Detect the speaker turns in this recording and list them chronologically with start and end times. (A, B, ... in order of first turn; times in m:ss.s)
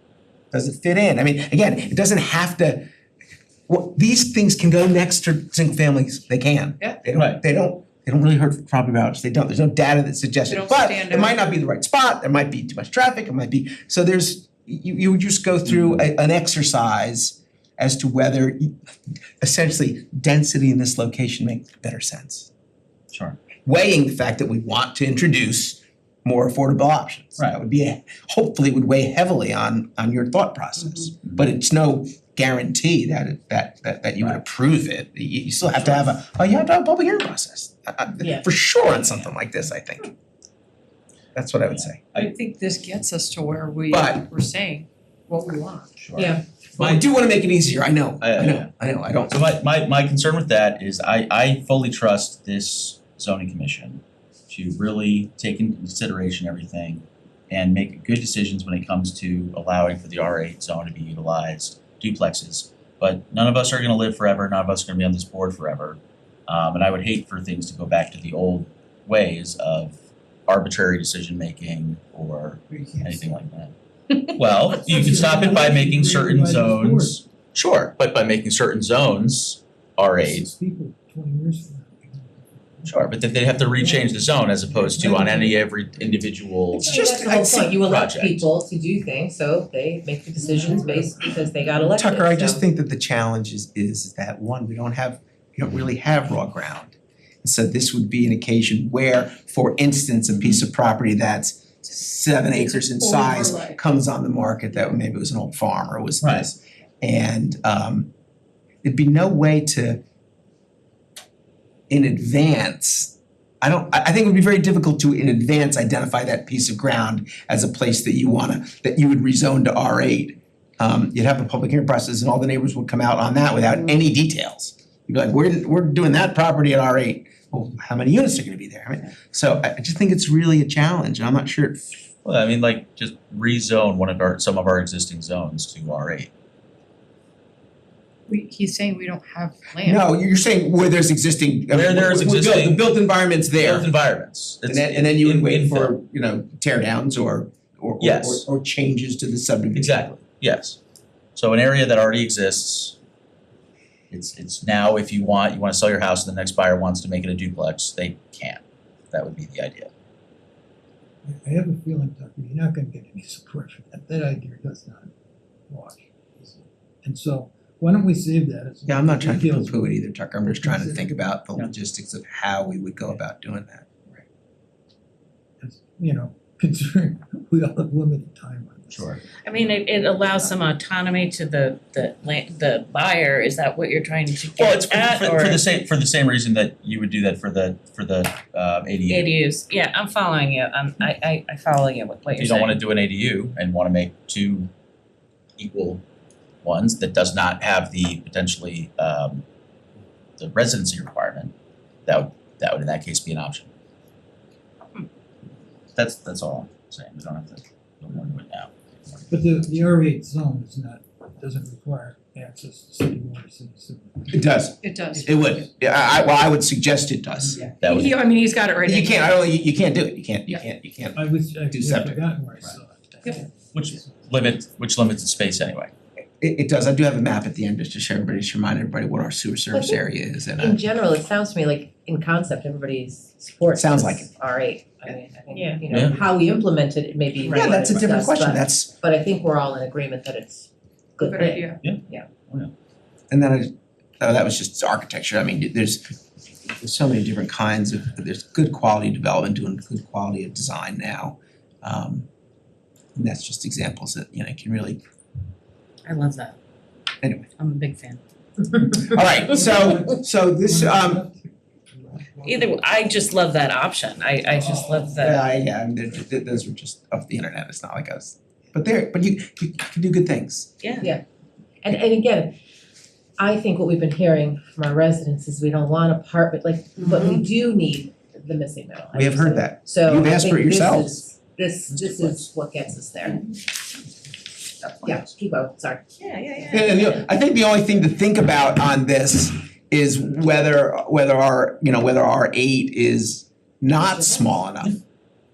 0:00.5-0:02.9 A
0:03.7-0:18.7 A
0:07.1-0:07.4 B
0:10.5-0:11.4 C
0:15.7-0:16.1 B
0:19.4-0:22.5 A
0:23.1-0:23.4 B
0:23.6-0:40.1 A
0:35.7-0:36.1 B
0:38.2-0:38.5 D
0:38.9-0:39.3 B
0:41.4-0:42.0 A
0:41.7-0:42.3 B
0:42.2-0:46.0 C
0:43.9-0:44.3 A
0:46.0-0:46.4 B
0:46.2-0:46.4 D
0:46.8-0:49.5 A
0:48.2-0:48.7 B
0:49.3-1:13.7 B
1:12.7-1:13.4 E
1:14.3-1:20.5 B
1:14.8-1:17.2 E
1:20.2-1:25.7 E
1:22.9-1:27.0 B
1:26.8-1:27.7 A
1:26.8-1:32.6 D
1:27.7-1:28.5 B
1:30.4-1:31.9 E
1:32.0-1:48.1 A
1:42.6-1:43.8 C
1:46.2-1:46.5 B
1:48.8-1:50.0 A
1:51.9-2:12.0 A
2:12.2-2:16.3 B
2:18.3-2:20.0 C
2:19.8-2:23.9 A
2:21.7-2:22.9 B
2:23.5-2:25.9 B
2:24.7-2:30.2 A
2:28.0-2:28.4 B
2:29.8-2:30.8 B
2:31.4-2:33.0 B
2:34.1-2:39.9 B
2:41.2-2:45.1 E
2:45.7-2:51.1 E
2:48.9-2:53.9 A
2:55.6-2:59.2 E
2:58.9-2:59.2 B
2:59.4-3:05.6 F
3:04.6-3:09.3 B
3:09.1-3:12.8 F
3:12.4-3:14.7 B
3:15.6-3:16.0 B
3:16.6-3:19.4 B
3:20.4-3:21.5 B
3:22.1-3:23.7 B
3:26.0-3:29.2 B
3:29.3-3:34.5 E
3:34.3-3:37.7 A
3:34.8-3:35.7 C
3:37.8-3:38.2 B
3:37.8-3:39.4 C
3:38.8-3:41.2 A
3:41.1-3:44.2 E
3:41.7-3:42.2 A
3:43.7-3:45.9 B
3:46.4-3:50.8 A
3:49.7-3:50.0 D
3:50.6-4:02.3 D
3:53.8-3:54.3 A
3:55.9-3:56.2 B
3:57.4-3:57.7 C
3:57.5-3:58.9 A
4:01.2-4:01.8 C
4:01.8-4:02.7 B
4:03.3-4:06.2 A
4:06.7-4:12.3 A
4:13.2-4:15.0 A
4:16.1-4:16.6 F
4:17.2-4:17.5 A
4:17.6-4:19.3 F
4:19.0-4:21.2 A
4:19.5-4:22.9 E
4:22.4-4:25.5 F
4:24.6-4:25.3 E
4:25.2-4:30.7 A
4:30.8-4:31.1 F
4:31.8-4:32.6 D
4:33.4-4:43.4 D
4:37.0-4:37.4 F
4:39.1-4:41.2 A
4:41.9-4:42.4 B
4:45.0-4:46.0 D
4:46.2-4:47.2 F
4:46.7-4:55.0 A
4:54.0-4:54.5 D